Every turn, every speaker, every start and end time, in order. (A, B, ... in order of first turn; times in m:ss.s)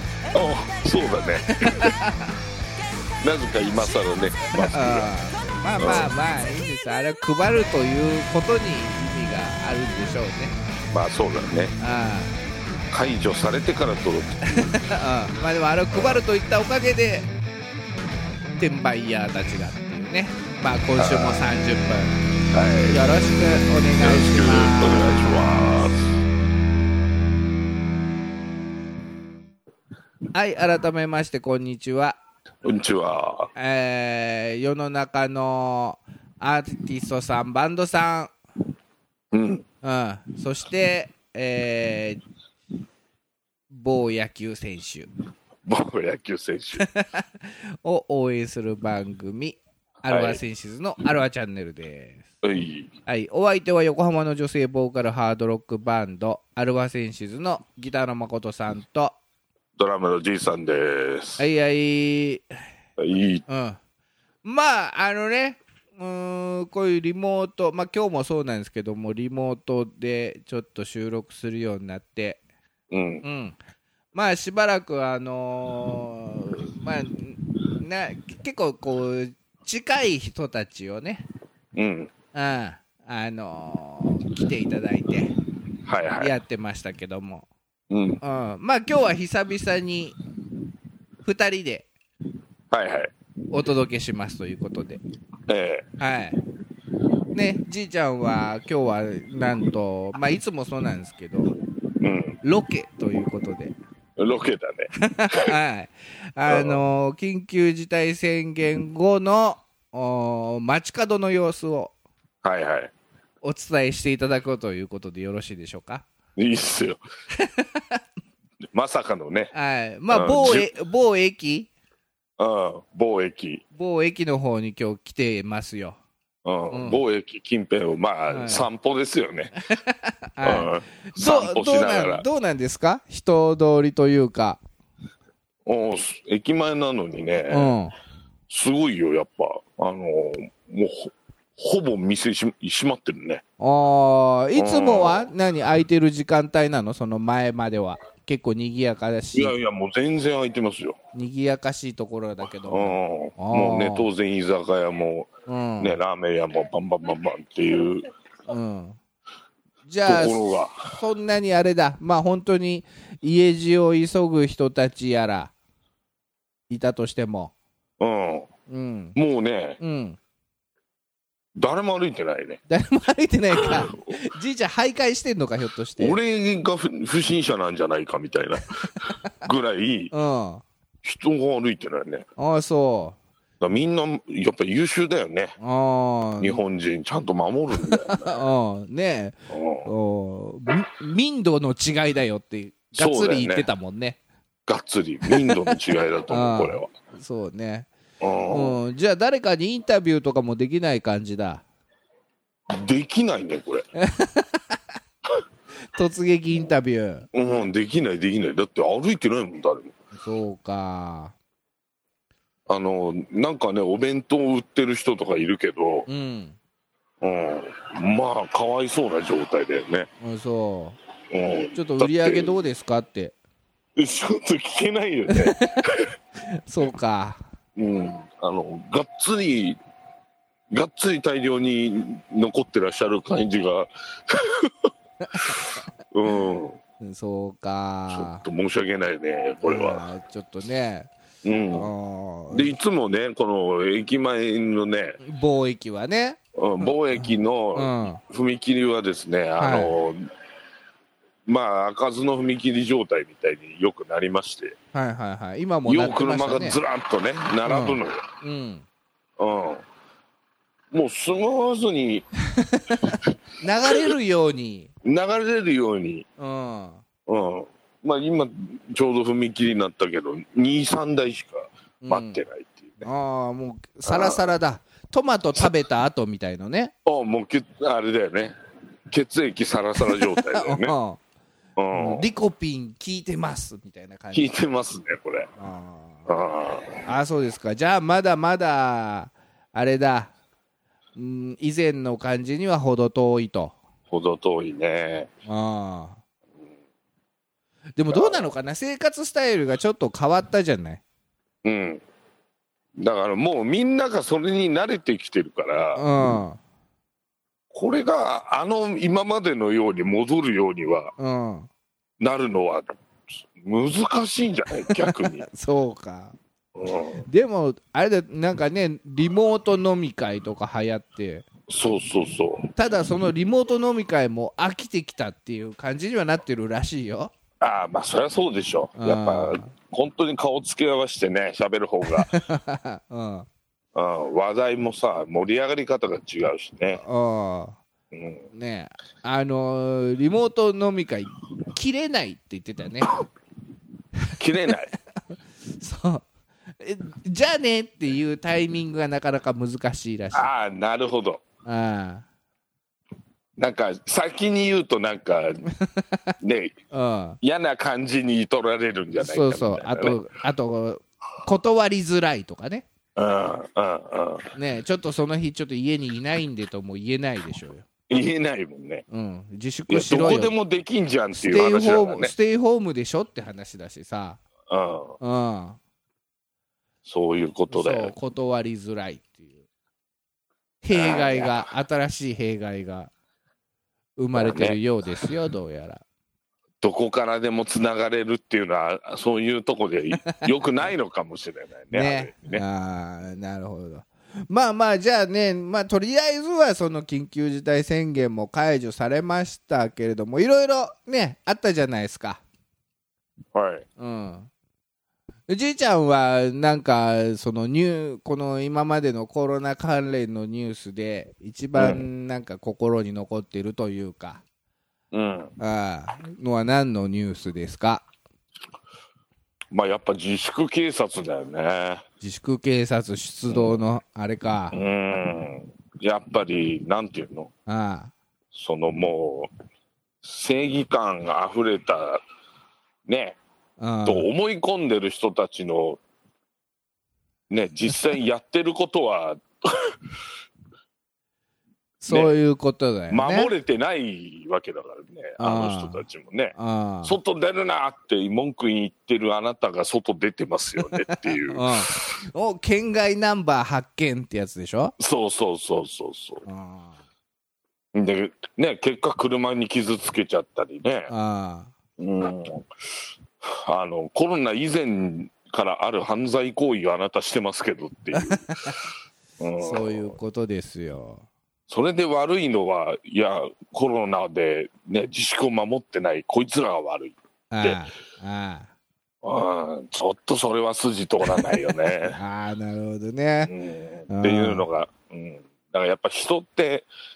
0:00.3-0:01.9 A
0:01.5-0:02.3 B
0:03.2-0:05.1 A
0:04.6-0:10.5 B
0:05.8-0:06.1 A
0:10.9-0:11.7 A
0:11.8-0:12.3 B
0:12.9-0:14.4 A
0:14.5-0:17.3 B
0:15.9-0:16.2 A
0:18.6-0:22.2 B
0:21.0-0:21.5 A
0:22.5-0:23.0 A
0:22.9-0:25.3 B
0:24.0-0:26.1 A
0:30.3-0:32.2 B
0:32.6-0:33.5 A
0:33.6-0:38.3 B
0:39.3-0:39.6 A
0:39.8-0:42.2 B
0:43.7-0:45.1 B
0:45.6-0:46.8 A
0:46.8-0:52.2 B
0:50.0-0:50.4 A
0:52.4-0:52.9 A
0:53.1-0:59.2 B
0:59.8-1:01.4 A
1:01.4-1:02.4 B
1:03.0-1:03.4 A
1:03.5-1:03.8 B
1:04.4-1:12.4 B
1:12.9-1:13.2 A
1:13.2-1:13.6 B
1:14.1-1:21.2 B
1:21.8-1:22.1 A
1:22.3-1:25.3 B
1:25.8-1:26.3 A
1:26.2-1:27.4 B
1:27.9-1:28.2 A
1:28.2-1:30.2 B
1:31.2-1:31.9 B
1:32.7-1:33.1 A
1:33.5-1:35.0 B
1:35.5-1:35.9 A
1:36.0-1:36.4 B
1:37.3-1:41.5 B
1:42.0-1:42.4 A
1:42.4-1:43.7 B
1:44.2-1:45.5 A
1:45.0-1:51.9 B
1:46.5-1:46.8 A
1:52.4-1:52.9 A
1:53.4-1:56.1 B
1:56.4-1:57.0 A
1:57.4-1:58.0 B
1:58.7-1:59.5 A
1:59.5-2:01.7 B
2:00.1-2:00.7 A
2:02.4-2:03.6 A
2:03.7-2:06.0 B
2:06.4-2:09.5 A
2:06.7-2:07.0 B
2:08.3-2:08.6 B
2:09.7-2:14.6 B
2:10.4-2:12.2 A
2:15.6-2:17.7 A
2:17.5-2:17.9 B
2:18.5-2:23.4 A
2:23.6-2:29.5 B
2:24.5-2:25.3 A
2:29.3-2:31.0 A
2:31.1-2:34.1 B
2:32.7-2:38.1 A
2:35.5-2:35.9 B
2:38.5-2:39.0 B
2:39.8-2:45.5 B
2:40.1-2:40.9 A
2:46.7-2:47.5 B
2:48.0-2:48.5 A
2:48.7-2:49.2 B
2:49.1-2:49.8 A
2:49.8-2:50.2 B
2:51.6-2:52.6 A
2:52.7-2:56.2 B
2:53.5-2:54.1 A
2:56.0-2:58.9 A
2:59.4-3:00.1 A
3:00.1-3:00.6 B
3:01.0-3:02.2 A
3:02.4-3:03.2 B
3:03.6-3:05.5 A
3:05.6-3:06.6 B
3:06.4-3:08.4 A
3:07.8-3:14.2 B
3:09.5-3:09.9 A
3:12.9-3:13.7 A
3:14.7-3:16.9 A
3:15.3-3:15.8 B
3:16.3-3:17.9 B
3:18.2-3:18.8 A
3:18.5-3:21.6 B
3:22.7-3:23.8 A
3:24.0-3:24.8 B
3:25.9-3:27.3 B
3:27.3-3:29.9 A
3:30.1-3:31.3 B
3:32.7-3:36.1 A
3:36.1-3:36.6 B
3:37.2-3:40.1 A
3:40.2-3:41.0 B
3:41.3-3:42.5 A
3:41.8-3:43.4 B
3:44.0-3:46.1 A
3:45.3-3:45.8 B
3:46.4-3:47.4 B
3:47.8-3:49.8 A
3:50.7-3:54.9 A
3:55.2-3:55.7 B
3:55.5-3:56.8 A
3:57.0-3:58.4 B
3:58.1-4:00.1 A
3:59.6-4:01.1 B
4:01.4-4:01.9 A
4:01.7-4:02.8 B
4:02.5-4:05.2 A
4:05.2-4:06.4 B
4:06.6-4:10.3 A
4:07.1-4:08.2 B
4:09.6-4:10.0 B
4:11.4-4:14.8 A
4:14.9-4:16.8 B
4:15.8-4:18.2 A
4:17.6-4:18.8 B
4:19.4-4:19.8 A
4:20.9-4:22.2 A
4:22.4-4:24.9 B
4:25.0-4:26.2 A
4:26.4-4:27.0 B
4:27.3-4:33.1 A
4:32.0-4:32.4 B
4:33.0-4:36.9 B
4:34.1-4:34.4 A
4:37.1-4:38.5 A
4:39.1-4:40.9 A
4:40.1-4:41.2 B
4:41.8-4:42.2 A
4:41.9-4:44.6 B
4:44.3-4:45.5 A
4:45.6-4:46.3 B
4:46.3-4:47.0 A
4:47.1-4:50.3 B
4:51.2-4:53.8 B
4:54.1-4:55.3 A
4:55.4-4:56.2 B
4:58.0-5:01.0 B
4:58.1-4:58.5 A
5:01.6-5:02.0 A
5:03.0-5:06.4 A
5:05.9-5:06.6 B
5:07.7-5:11.1 A
5:11.2-5:11.7 B
5:12.2-5:12.9 A
5:13.5-5:15.5 A
5:14.9-5:16.4 B
5:16.8-5:17.2 A
5:17.2-5:21.5 B
5:21.7-5:22.7 A
5:22.8-5:27.3 B
5:27.6-5:32.4 A
5:29.0-5:29.7 B
5:32.2-5:33.5 B
5:33.9-5:37.0 A
5:36.9-5:37.8 B
5:38.1-5:38.5 A
5:38.5-5:43.2 B
5:44.2-5:44.7 B
5:44.4-5:44.9 A
5:45.8-5:46.3 B
5:46.8-5:50.5 B
5:50.3-5:51.4 A
5:51.6-5:52.2 B
5:53.6-5:55.6 A
5:55.7-5:56.3 B
5:56.4-5:56.7 A
5:56.9-5:57.4 B
5:57.4-6:00.2 A
5:59.2-6:02.9 B
6:03.2-6:04.5 A
6:04.5-6:07.9 B
6:08.1-6:09.0 A
6:09.1-6:10.5 B
6:09.9-6:12.3 A
6:11.4-6:14.4 B
6:14.7-6:15.2 A
6:15.2-6:15.8 B
6:17.0-6:18.1 A
6:17.7-6:19.5 B
6:20.8-6:23.1 B
6:20.9-6:21.6 A
6:24.2-6:26.0 B
6:24.3-6:24.8 A
6:26.8-6:32.6 A
6:31.9-6:42.4 B
6:43.5-6:43.9 A
6:44.0-6:44.5 B
6:45.5-6:54.4 B
6:51.8-6:52.0 A
6:55.1-6:55.5 A
6:55.6-6:58.0 B
6:59.7-7:02.0 A
7:02.2-7:04.8 B
7:03.5-7:03.8 A
7:04.7-7:07.5 A
7:07.7-7:08.1 B
7:08.5-7:09.5 A
7:10.2-7:12.2 A
7:13.0-7:13.4 A
7:13.8-7:14.3 B
7:14.0-7:16.0 A
7:17.5-7:20.0 A
7:22.0-7:23.5 B
7:22.1-7:22.4 A
7:23.1-7:32.1 A
7:25.4-7:26.0 B
7:26.6-7:27.2 B
7:31.0-7:34.9 B
7:35.0-7:36.4 A
7:36.4-7:37.0 B
7:37.9-7:41.1 A
7:41.1-7:41.7 B
7:42.0-7:42.7 A
7:43.4-7:48.7 A
7:48.1-7:48.8 B
7:49.4-7:50.2 A
7:49.6-7:51.2 B
7:51.7-7:57.8 A
7:57.5-7:58.7 B
7:59.2-8:02.2 A
8:01.4-8:03.5 B
8:03.5-8:06.9 A
8:04.1-8:04.7 B